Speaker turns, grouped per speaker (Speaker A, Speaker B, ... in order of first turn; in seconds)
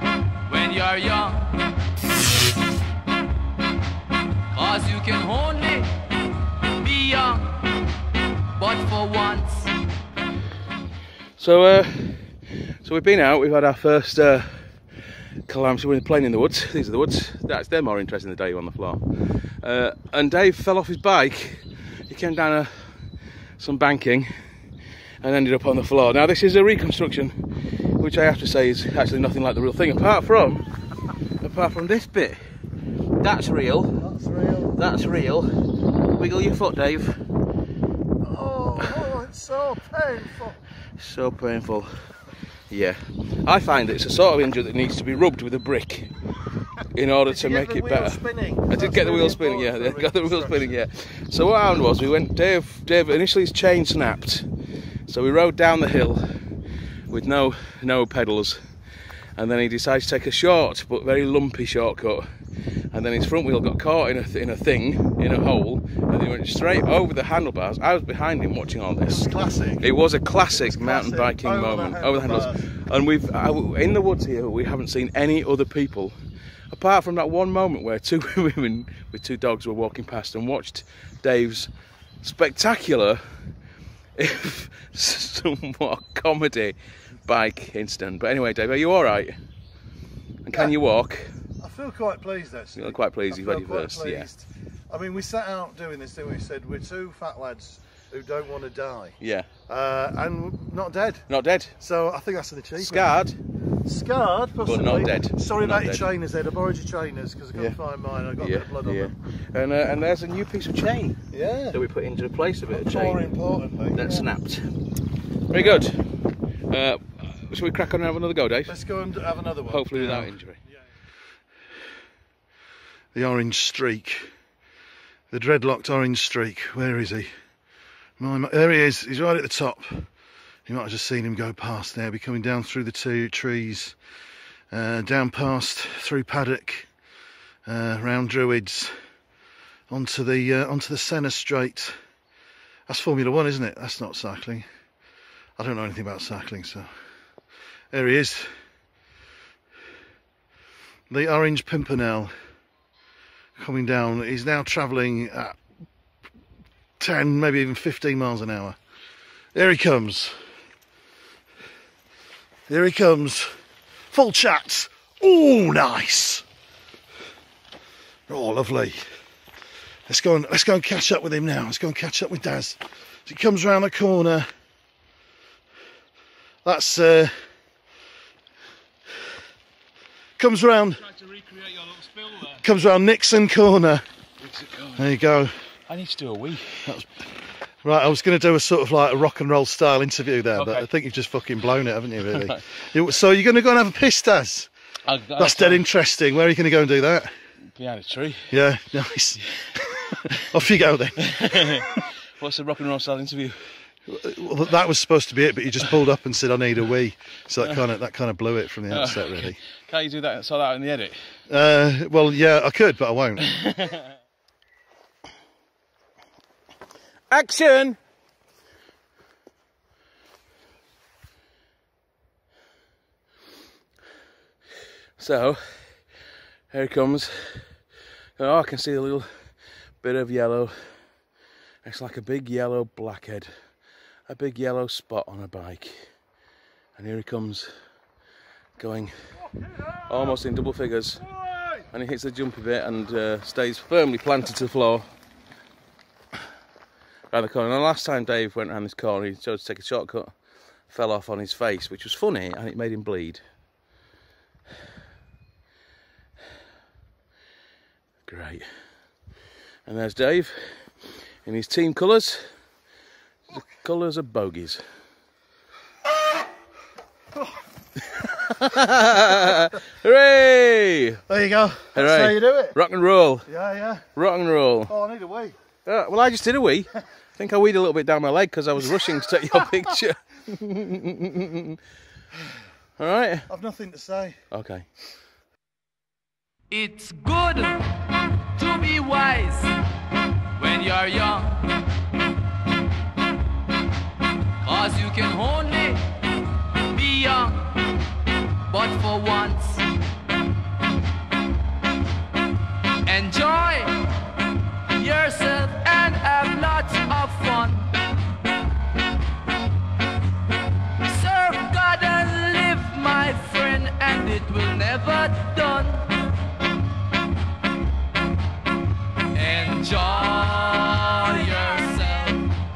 Speaker A: 0.5-1.6, 4.5-5.9, 6.8-7.6, 8.6-9.7, 286.7-287.9, 288.6-289.7, 290.6-291.8, 294.6-296.1, 296.8-297.9, 298.7-299.9, 303.1-304.1, 304.9-307.9, 311.1-316.2, 319.3-322.5
Speaker B: 11.4-12.3, 12.8-14.6, 15.5-23.0, 23.6-24.3, 25.2-27.4, 28.0-30.6, 31.4-32.4, 33.2-34.0, 34.7-35.5, 36.1-37.2, 38.8-39.1, 41.0-41.9, 42.7-46.1, 47.0-54.5, 55.1-56.2, 57.1-58.6, 59.4-62.2, 62.9-76.2, 76.7-81.7, 82.2-83.2, 84.2-89.4, 90.5-91.3, 92.8-94.3, 99.2-99.5, 101.3-101.7, 102.8-103.4, 104.6-106.1, 108.4-111.2, 111.7-113.3, 113.9-114.7, 115.5-116.1, 116.7-118.8, 119.7-120.6, 181.0-182.6, 184.4-185.1, 185.9-187.0, 190.5-190.9, 192.3-192.6, 195.1-195.8, 197.8-198.5, 199.4-199.8, 201.2-203.7, 208.9-211.2, 213.4-214.0, 217.3-218.0, 225.2-225.6, 226.7-227.6, 228.4-229.3, 230.0-230.7, 231.8-233.5, 234.3-236.1, 237.0-237.7, 238.8-239.1, 240.0-241.3, 241.9-245.1, 247.3-250.3, 250.9-253.4, 258.3-258.7, 259.9-260.8, 261.4-262.4, 263.5-264.8, 268.2-271.2, 271.9-273.5, 274.2-274.9, 275.9-281.8, 283.0-283.5, 284.5-284.9
Speaker C: 34.0-34.8, 38.2-40.6, 47.3-50.8, 69.0-69.9, 70.5-72.7, 91.6-101.3, 101.8-103.2, 103.8-109.1, 111.3-111.8, 112.7-114.3, 115.5-115.9, 118.7-120.4, 123.1-124.3, 125.3-127.3, 128.2-130.1, 130.7-134.0, 134.7-136.9, 137.7-138.9, 139.9-141.9, 142.9-144.7, 145.6-146.9, 147.9-148.5, 151.1-152.3, 153.6-155.6, 157.0-158.8, 159.5-160.4, 162.7-163.5, 164.1-166.4, 168.3-169.0, 170.1-174.5, 176.6-177.3, 180.4-181.0, 182.6-184.0, 185.0-185.5, 186.8-187.1, 187.8-194.7, 195.4-197.3, 198.5-199.4, 200.0-202.0, 204.1-209.6, 211.5-213.5, 271.3-272.8, 273.5-274.1, 274.9-275.6, 283.5-284.4